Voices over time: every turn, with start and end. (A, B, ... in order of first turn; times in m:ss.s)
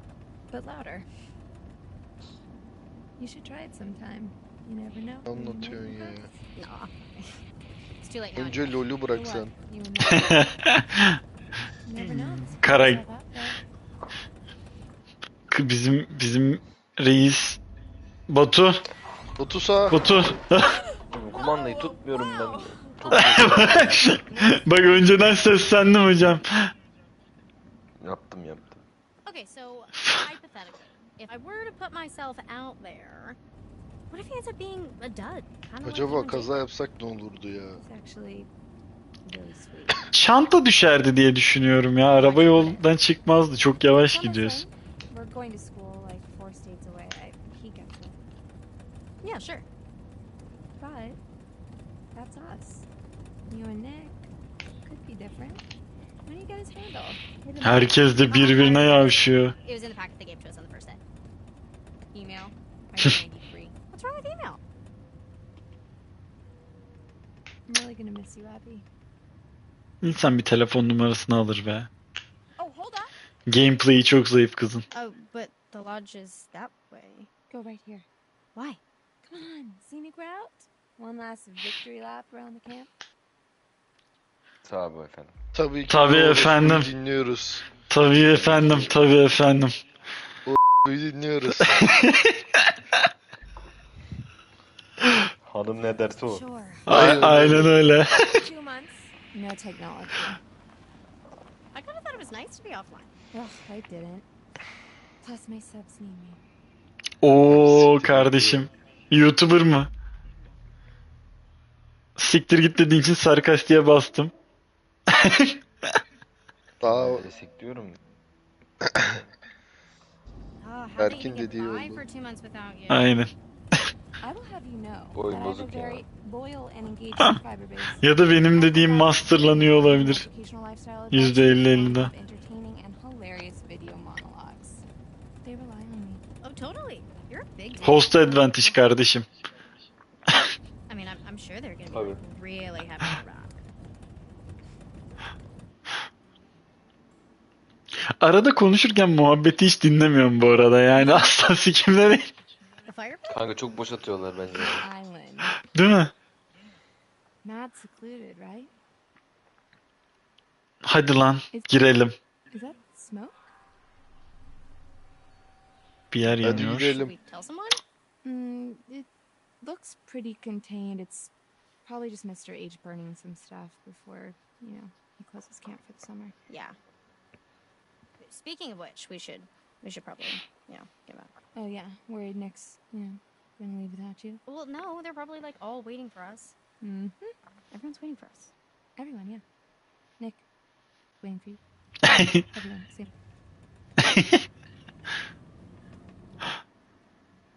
0:00.5-0:01.0 A
0:03.2-0:06.4 A
0:05.3-0:06.3 B
0:06.6-0:07.4 C
0:08.0-0:09.0 C
0:08.3-0:09.5 B
0:09.1-0:10.5 A
0:10.0-0:11.2 D
0:11.8-0:13.6 A
0:12.0-0:13.0 D
0:15.5-0:17.6 D
0:18.3-0:18.8 D
0:19.4-0:20.0 B
0:19.9-0:20.8 D
0:20.7-0:23.1 A
0:21.1-0:24.2 E
0:23.1-0:25.0 C
0:23.1-0:26.7 D
0:28.0-0:28.8 E
0:29.2-0:33.4 C
0:34.1-0:36.7 C
0:35.8-0:37.8 B
0:37.8-0:38.5 A
0:39.2-0:40.0 A
0:40.0-0:44.6 D
0:42.2-0:42.8 C
0:42.2-0:42.8 A
0:43.9-0:48.2 A
0:49.2-0:49.6 C
0:50.8-0:51.2 A
0:52.1-0:52.8 A
0:53.5-0:54.2 A
0:54.8-0:55.6 A
0:56.2-0:58.2 A
0:57.6-0:59.5 D
0:58.2-1:01.0 C
1:02.1-1:02.5 C
1:02.4-1:03.8 A
1:03.8-1:04.6 C
1:07.7-1:08.8 A
1:10.0-1:11.9 D
1:12.6-1:13.1 A
1:13.5-1:14.8 D
1:14.9-1:17.3 C
1:17.5-1:18.0 A
1:18.5-1:18.8 C
1:19.2-1:22.9 A
1:24.6-1:25.3 E
1:25.5-1:27.7 B
1:25.9-1:26.9 D
1:27.9-1:29.8 D
1:28.1-1:29.0 E
1:30.4-1:31.9 B
1:31.6-1:33.0 D
1:35.4-1:37.6 E
1:36.2-1:36.9 C
1:36.8-1:38.5 D
1:36.9-1:37.8 B
1:38.2-1:40.4 A
1:41.7-1:43.1 C
1:43.3-1:44.2 A
1:45.2-1:46.4 A
1:47.2-1:49.9 D
1:47.5-1:48.6 B
1:47.8-1:48.4 E
1:52.2-1:54.3 D
1:55.1-1:55.9 D
1:56.8-1:57.2 B
1:56.8-1:58.0 E
1:58.9-1:59.1 B
2:00.6-2:03.1 C
2:01.0-2:02.0 B
2:02.9-2:03.9 D
2:04.2-2:14.8 A
2:05.1-2:06.0 E
2:08.0-2:10.3 D
2:11.1-2:12.1 D
2:15.4-2:16.2 A
2:16.4-2:18.7 C
2:17.8-2:19.2 D
2:18.0-2:18.7 A
2:20.9-2:23.6 C
2:21.9-2:22.2 E
2:28.2-2:32.3 D
2:30.9-2:31.3 C
2:32.8-2:33.4 C
2:33.3-2:34.9 E
2:34.6-2:35.6 A
2:35.6-2:36.1 D
2:37.4-2:38.7 A
2:40.8-2:42.1 D
2:41.5-2:41.8 A
2:42.5-2:43.5 A
2:46.1-2:47.0 D
2:46.4-2:47.2 B
2:46.9-2:47.8 C
2:48.2-2:49.1 A
2:49.6-2:51.3 A
2:51.8-2:56.3 A
2:56.5-2:56.8 C
2:58.2-3:01.3 C
3:01.5-3:04.4 A
3:04.4-3:06.5 C
3:06.8-3:07.3 A
3:07.7-3:08.5 C
3:09.0-3:09.4 A
3:11.2-3:13.1 A
3:12.0-3:12.4 D
3:14.0-3:14.4 D